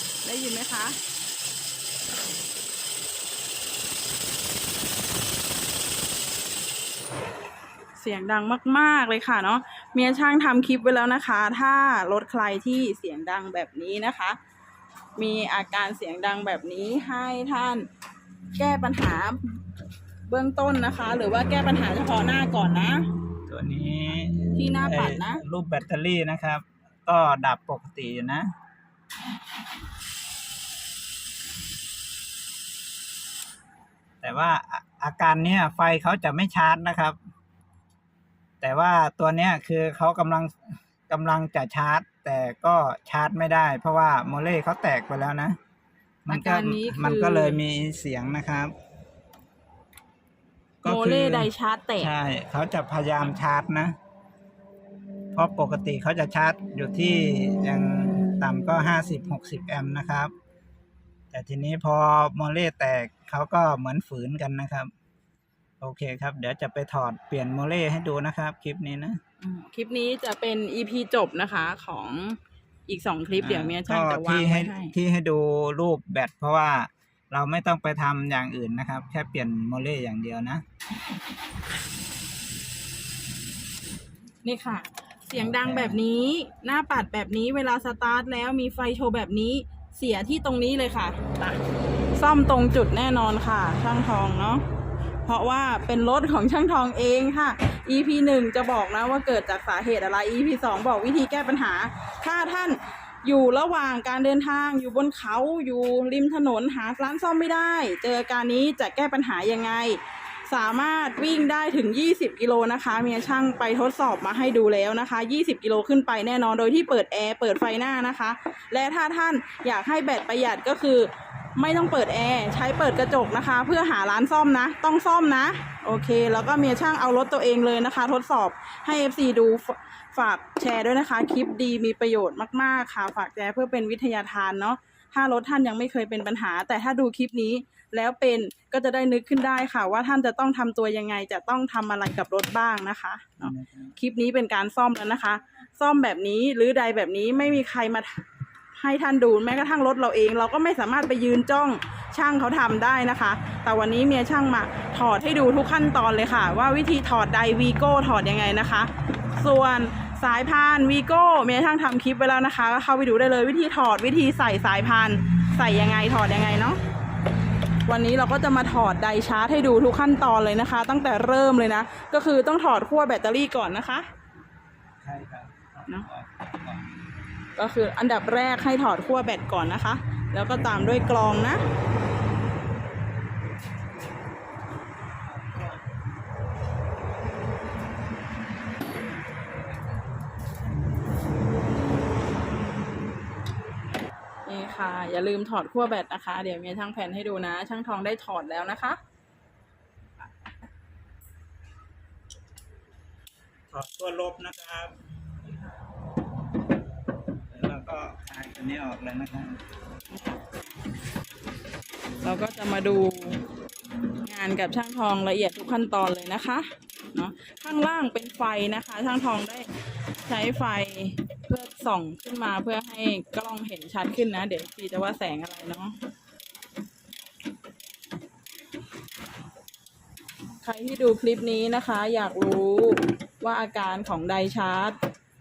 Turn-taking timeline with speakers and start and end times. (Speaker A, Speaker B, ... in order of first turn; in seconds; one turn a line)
Speaker A: 0.2-1.0
Speaker A: 8.0-14.4
Speaker A: 15.2-17.9
Speaker A: 18.6-19.6
Speaker A: 20.3-23.1
Speaker B: 23.5-28.5
Speaker A: 24.6-25.4
Speaker B: 34.2-37.2
Speaker B: 38.6-45.6
Speaker A: 46.3-47.6
Speaker B: 46.3-48.7
Speaker B: 50.8-54.0
Speaker A: 50.8-52.1
Speaker B: 55.3-60.3
Speaker B: 61.3-64.9
Speaker B: 65.8-69.2
Speaker A: 69.4-75.0
Speaker B: 73.4-80.6
Speaker A: 84.4-91.6
Speaker B: 85.5-86.0
Speaker A: 92.2-94.6
Speaker A: 95.2-166.8
Speaker B: 143.4-144.0
Speaker A: 167.9-174.1
Speaker B: 175.0-176.9
Speaker A: 177.6-181.6
Speaker B: 185.2-185.8
Speaker A: 194.5-199.0
Speaker B: 203.7-205.0
Speaker B: 207.5-209.6
Speaker A: 212.2-213.4
Speaker A: 214.2-219.7
Speaker A: 220.2-226.0
Speaker A: 230.6-235.0